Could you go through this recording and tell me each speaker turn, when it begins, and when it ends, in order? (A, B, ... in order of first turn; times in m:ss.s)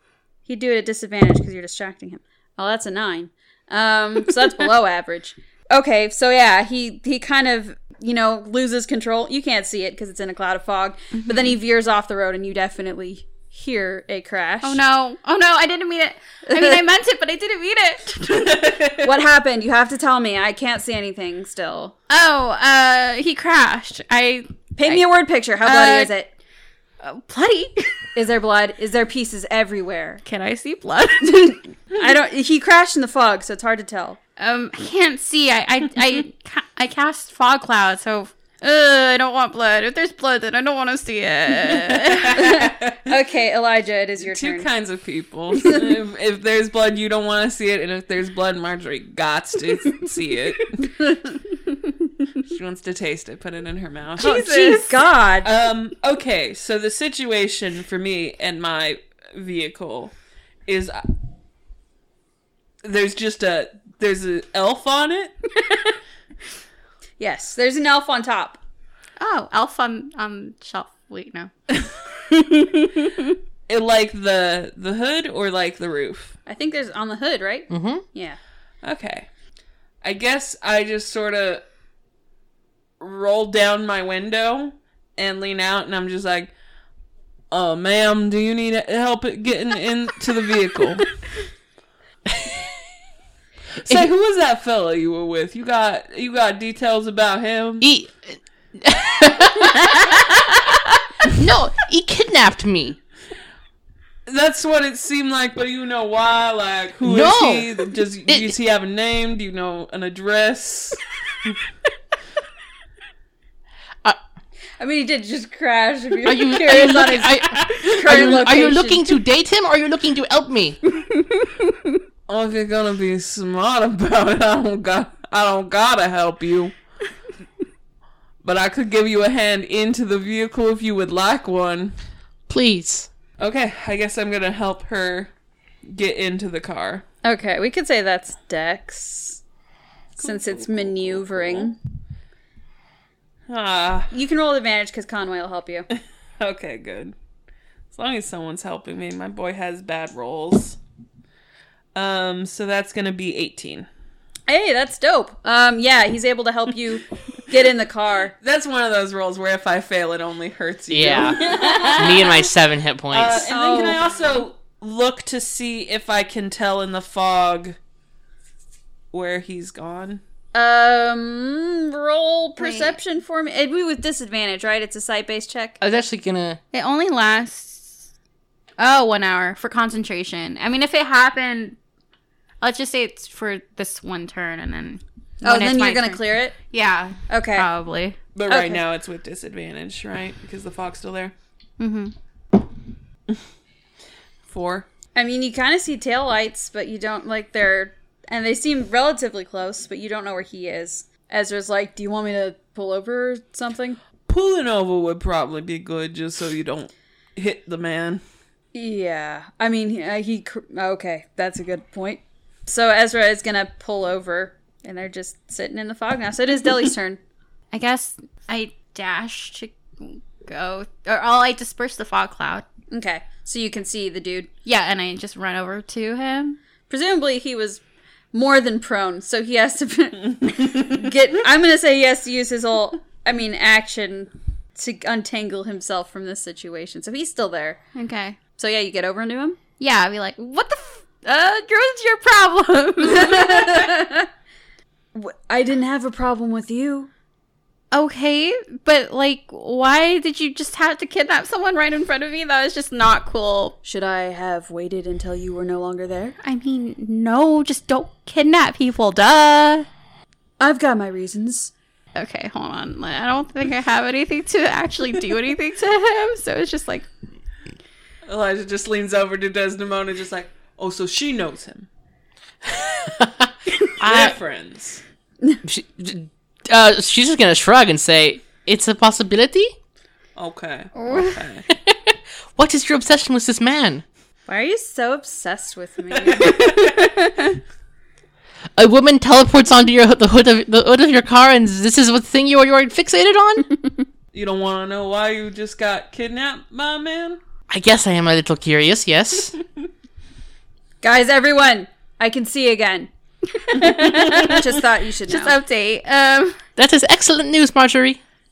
0:00.5-0:14.8 A
0:14.6-0:18.6 B
0:16.5-0:16.8 A
0:18.3-0:19.1 C
0:19.0-0:22.0 A
0:22.1-0:25.1 B
0:24.8-0:26.3 A
0:25.6-0:26.1 B
0:27.0-0:28.0 B
0:28.2-0:30.2 A
0:30.2-0:31.6 B
0:31.2-0:34.2 A
0:34.4-0:42.6 B
0:41.7-0:43.2 C
0:42.3-0:44.7 A
0:44.2-0:51.0 C
0:52.4-1:00.1 C
0:54.2-0:55.5 A
1:00.7-1:01.1 C
1:02.8-1:05.4 C
1:07.2-1:08.6 A
1:09.2-1:13.4 B
1:13.7-1:16.4 C
1:16.5-1:18.4 A
1:17.7-1:18.0 D
1:18.8-1:19.3 C
1:20.0-1:21.6 C
1:23.0-1:26.5 C
1:27.5-1:31.1 C
1:33.8-1:37.9 C
1:37.8-1:43.0 D
1:44.3-1:51.6 C
1:47.0-1:48.5 D
1:54.8-1:59.1 A
1:56.2-2:00.8 D
2:01.0-2:01.9 B
2:02.3-2:06.8 C
2:08.4-2:12.0 C
2:12.5-2:13.1 D
2:13.4-2:15.3 C
2:15.9-2:17.0 C
2:17.2-2:19.4 A
2:20.2-2:21.7 C
2:20.2-2:21.8 A
2:23.5-2:24.1 C
2:24.1-2:25.9 A
2:26.4-2:27.2 C
2:27.9-2:30.8 C
2:32.0-2:33.9 C
2:34.5-2:38.4 A
2:38.4-2:42.4 C
2:40.9-2:43.5 D
2:41.5-2:42.4 B
2:43.1-2:47.8 C
2:43.5-2:44.1 A
2:49.1-2:50.2 C
2:50.5-2:55.8 A
2:52.6-2:53.0 B
2:55.8-2:56.6 D
2:56.7-2:58.1 B
2:58.8-3:01.8 B
3:02.6-3:08.2 B
3:05.4-3:06.6 A
3:07.3-3:07.7 A
3:08.4-3:11.3 C
3:08.5-3:08.8 A
3:11.8-3:12.1 B
3:14.5-3:14.9 C
3:15.2-3:24.0 A
3:24.3-3:28.2 C
3:28.7-3:37.2 A
3:37.7-3:42.7 B
3:42.9-3:44.5 A
3:44.6-3:46.6 B
3:46.9-3:47.8 A
3:48.3-3:57.8 A
3:58.0-3:58.4 B
3:58.6-3:59.6 A
3:59.8-4:04.0 B
4:03.0-4:04.3 A
4:05.1-4:07.1 A
4:07.9-4:13.8 B
4:13.8-4:16.4 A
4:16.4-4:19.9 B
4:20.6-4:21.7 A
4:22.2-4:27.1 B
4:28.3-4:31.9 C
4:32.7-4:34.4 D
4:34.0-4:35.0 C
4:35.6-4:39.7 D
4:40.4-4:41.7 C
4:40.9-4:41.4 B
4:41.7-4:44.0 D
4:44.5-4:46.6 A
4:46.1-4:47.2 C
4:47.0-4:47.4 B
4:48.8-4:53.8 D
4:54.3-4:57.4 C
4:57.7-4:59.6 D
5:01.0-5:03.1 A
5:03.6-5:06.6 B
5:03.8-5:05.6 A
5:06.8-5:08.2 D